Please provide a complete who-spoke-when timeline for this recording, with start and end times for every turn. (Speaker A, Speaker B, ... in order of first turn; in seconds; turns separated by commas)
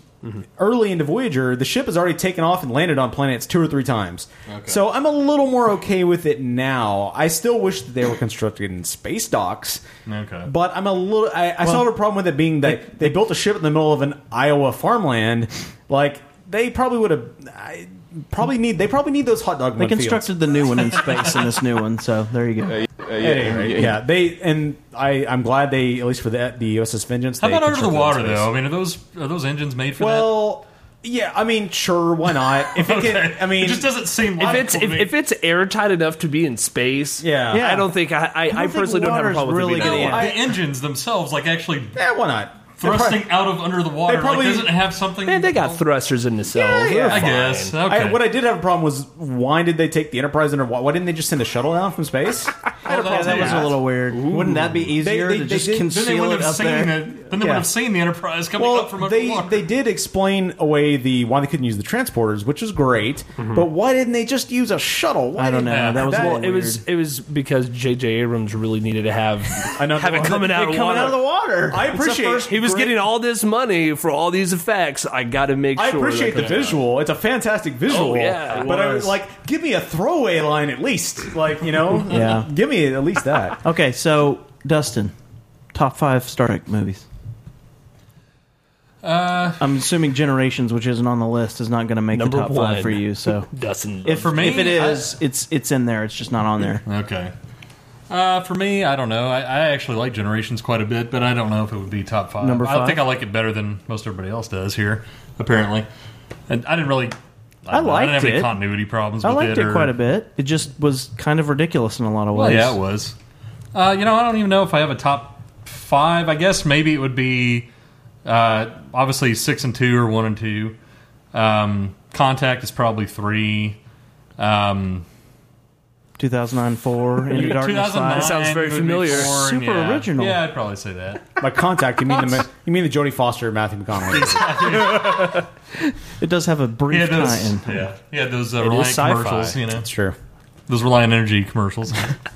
Speaker A: 0.6-9.8, Speaker B: 4.5-4.8, Speaker B: 10.1-10.5, Speaker A: 10.4-20.3, Speaker C: 12.6-13.1, Speaker C: 19.8-22.9, Speaker A: 23.2-28.5, Speaker B: 27.4-30.4, Speaker A: 30.0-33.9, Speaker B: 32.7-35.1, Speaker D: 34.4-40.2, Speaker A: 37.2-37.6, Speaker C: 37.5-37.9, Speaker C: 38.5-40.2, Speaker A: 39.9-40.5, Speaker B: 40.0-41.9, Speaker A: 41.9-43.3, Speaker B: 42.8-45.8, Speaker A: 44.0-44.7, Speaker D: 45.2-47.7, Speaker A: 46.5-47.3, Speaker B: 47.1-48.2, Speaker A: 47.9-53.7, Speaker B: 52.9-53.8, Speaker C: 52.9-57.0, Speaker A: 54.9-55.9, Speaker B: 55.9-59.6, Speaker A: 57.3-57.7, Speaker A: 58.6-66.4, Speaker C: 65.3-66.8, Speaker B: 65.7-66.1, Speaker D: 66.1-71.2, Speaker A: 69.7-71.1, Speaker C: 70.4-72.2, Speaker A: 71.7-73.0, Speaker D: 72.0-76.7, Speaker A: 75.8-83.6, Speaker B: 76.3-76.7, Speaker D: 77.9-79.1, Speaker C: 82.1-82.5, Speaker C: 83.6-85.1, Speaker C: 85.7-87.0, Speaker B: 89.0-89.6, Speaker C: 89.6-93.5, Speaker D: 92.1-94.7, Speaker C: 94.0-96.8, Speaker B: 94.1-95.1, Speaker B: 96.8-97.3, Speaker B: 98.1-105.9, Speaker C: 102.4-103.0, Speaker B: 106.5-107.2, Speaker B: 107.7-109.9, Speaker C: 107.7-108.5, Speaker C: 109.2-112.8, Speaker B: 112.3-113.1, Speaker B: 113.7-117.7, Speaker B: 118.2-120.8, Speaker B: 121.3-123.8, Speaker B: 124.4-125.0, Speaker C: 126.2-128.4, Speaker B: 127.3-131.3, Speaker D: 128.1-129.3, Speaker C: 129.1-130.4, Speaker A: 131.4-135.1, Speaker B: 134.1-135.3, Speaker C: 136.2-137.9, Speaker B: 136.9-139.9, Speaker C: 138.6-139.6, Speaker A: 139.7-140.2, Speaker B: 140.7-142.1